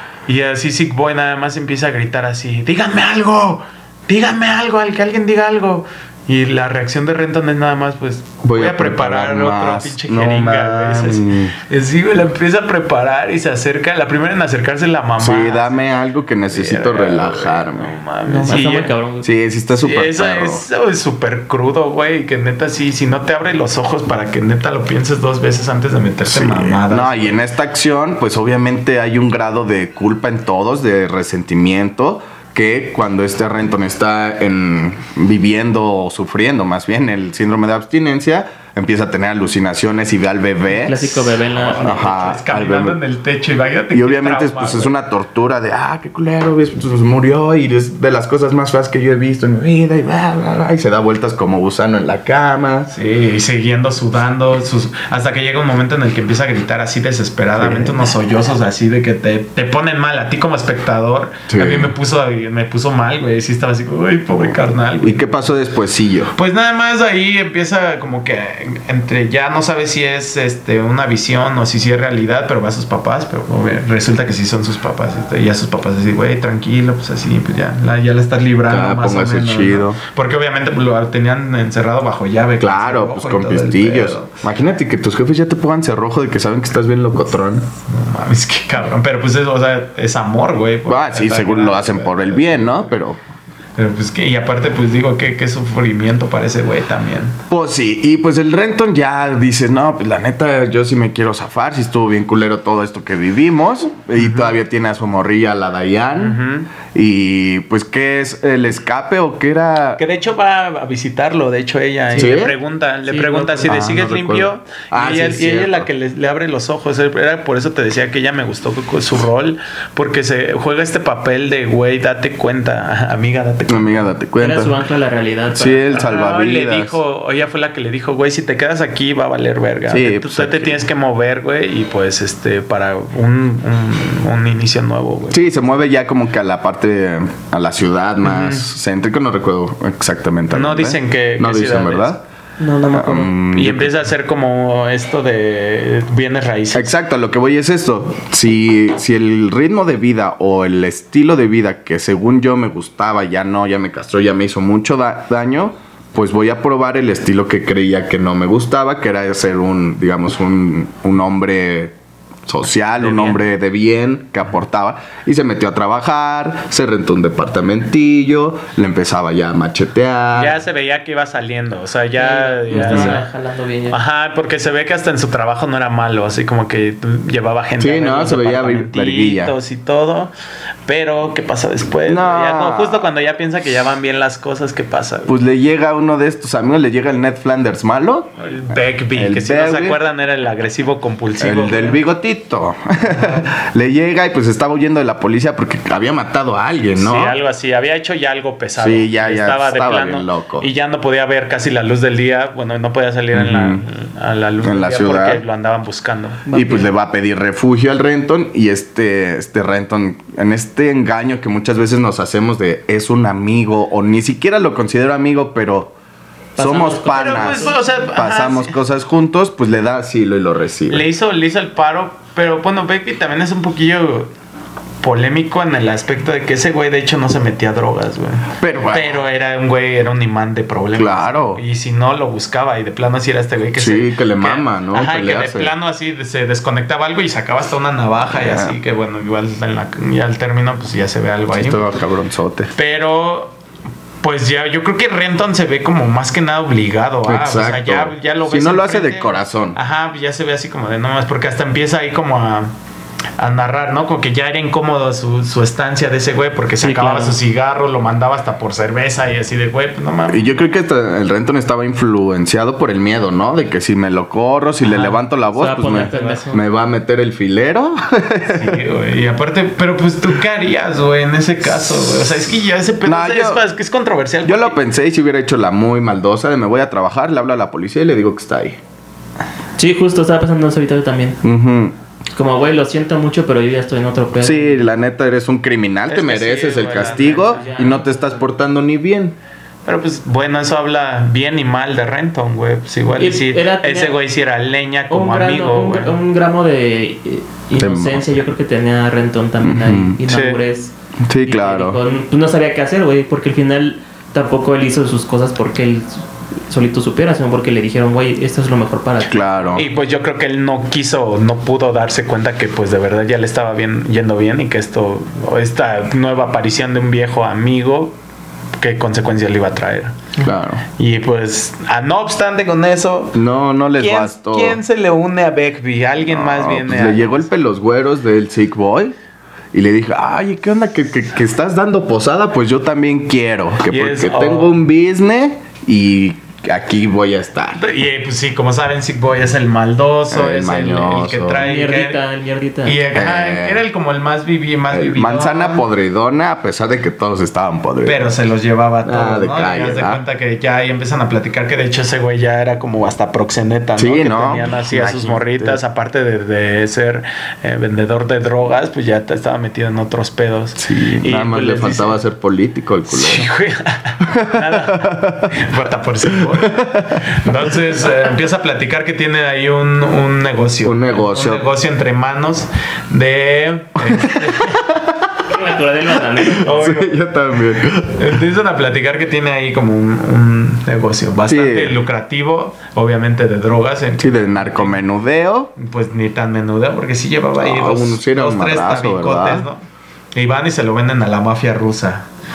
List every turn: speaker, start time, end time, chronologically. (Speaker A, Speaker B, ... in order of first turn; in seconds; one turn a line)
Speaker A: 0.3-15.8
Speaker B: 8.4-11.5
Speaker B: 15.2-18.0
Speaker A: 16.5-18.9
Speaker C: 18.2-19.3
Speaker B: 19.2-20.6
Speaker A: 19.8-27.4
Speaker B: 26.2-43.0
Speaker C: 40.7-42.2
Speaker A: 41.6-44.9
Speaker B: 43.9-52.9
Speaker A: 52.9-65.3
Speaker B: 57.6-58.1
Speaker B: 61.5-62.0
Speaker B: 65.0-66.3
Speaker A: 66.3-84.4
Speaker B: 78.7-80.0
Speaker B: 82.6-87.7
Speaker A: 87.9-92.9
Speaker B: 90.9-93.2
Speaker A: 93.8-97.4
Speaker B: 97.5-106.4
Speaker A: 106.2-106.7
Speaker B: 106.9-110.0
Speaker A: 110.0-124.0
Speaker C: 112.1-112.4
Speaker B: 112.2-112.6
Speaker C: 113.1-113.8
Speaker B: 113.7-115.9
Speaker B: 123.7-124.8
Speaker C: 124.4-126.1
Speaker B: 125.5-127.0
Speaker A: 125.9-135.5
Speaker B: 129.9-130.9
Speaker B: 135.3-142.2
Speaker A: 138.2-138.6
Speaker A: 140.5-142.2
Speaker C: 142.6-143.3
Speaker B: 142.9-143.9
Speaker A: 143.5-146.9
Speaker B: 146.7-161.9
Speaker B: 162.5-170.6
Speaker A: 163.0-163.4
Speaker A: 170.4-173.3
Speaker C: 172.2-174.0
Speaker B: 172.7-173.2
Speaker A: 173.9-180.3
Speaker B: 177.8-179.6
Speaker A: 180.9-185.3
Speaker B: 182.1-183.1
Speaker B: 185.3-188.3
Speaker A: 188.4-192.0
Speaker B: 189.2-190.0
Speaker B: 191.4-197.4
Speaker A: 193.1-193.4
Speaker A: 197.0-206.6
Speaker B: 198.8-200.7
Speaker B: 203.3-203.8
Speaker B: 204.6-205.4
Speaker C: 206.5-206.9
Speaker B: 206.5-215.9
Speaker C: 216.6-217.8
Speaker B: 216.6-221.1
Speaker A: 217.1-218.7
Speaker A: 220.9-224.3
Speaker A: 225.0-241.9
Speaker B: 228.6-229.2
Speaker B: 230.9-231.6
Speaker B: 233.8-235.7
Speaker B: 238.3-238.8
Speaker B: 241.5-242.7
Speaker A: 242.8-243.5
Speaker A: 244.2-252.7
Speaker B: 247.3-249.8
Speaker A: 253.4-260.5
Speaker C: 256.8-257.4
Speaker B: 260.3-268.8
Speaker A: 264.8-265.2
Speaker C: 265.5-266.6
Speaker A: 266.0-266.5
Speaker A: 268.5-274.8
Speaker B: 272.0-272.4
Speaker B: 273.0-273.6
Speaker B: 274.4-278.8
Speaker C: 279.8-281.4
Speaker B: 281.4-281.9
Speaker C: 282.4-284.9
Speaker B: 284.4-289.4
Speaker A: 286.1-287.9
Speaker C: 287.0-288.5
Speaker A: 289.9-296.2
Speaker C: 293.2-294.2
Speaker C: 295.1-300.9
Speaker B: 297.8-298.3
Speaker B: 299.6-300.3
Speaker A: 300.3-300.6
Speaker B: 301.3-302.0
Speaker C: 301.5-309.8
Speaker B: 309.3-309.9
Speaker A: 309.8-318.1
Speaker A: 318.8-320.3
Speaker B: 320.4-320.8
Speaker A: 321.0-323.4
Speaker B: 323.4-324.8
Speaker A: 324.0-327.5
Speaker B: 326.2-329.1
Speaker B: 329.7-337.9
Speaker A: 333.9-334.7
Speaker A: 337.8-342.2
Speaker B: 340.3-341.7
Speaker C: 341.6-343.0
Speaker A: 342.9-345.8
Speaker B: 343.1-343.8
Speaker B: 344.9-348.2
Speaker A: 348.0-362.2
Speaker B: 349.0-350.2
Speaker B: 354.0-355.8
Speaker B: 360.8-363.5
Speaker A: 363.1-374.8
Speaker B: 364.2-365.6
Speaker B: 366.2-367.6
Speaker B: 370.8-371.6
Speaker B: 374.0-375.3
Speaker C: 375.5-376.9
Speaker B: 376.4-378.4
Speaker A: 376.6-377.2
Speaker A: 378.1-385.0
Speaker B: 381.5-382.0
Speaker B: 384.2-385.7
Speaker A: 385.8-389.8
Speaker B: 387.6-389.7
Speaker A: 390.3-392.2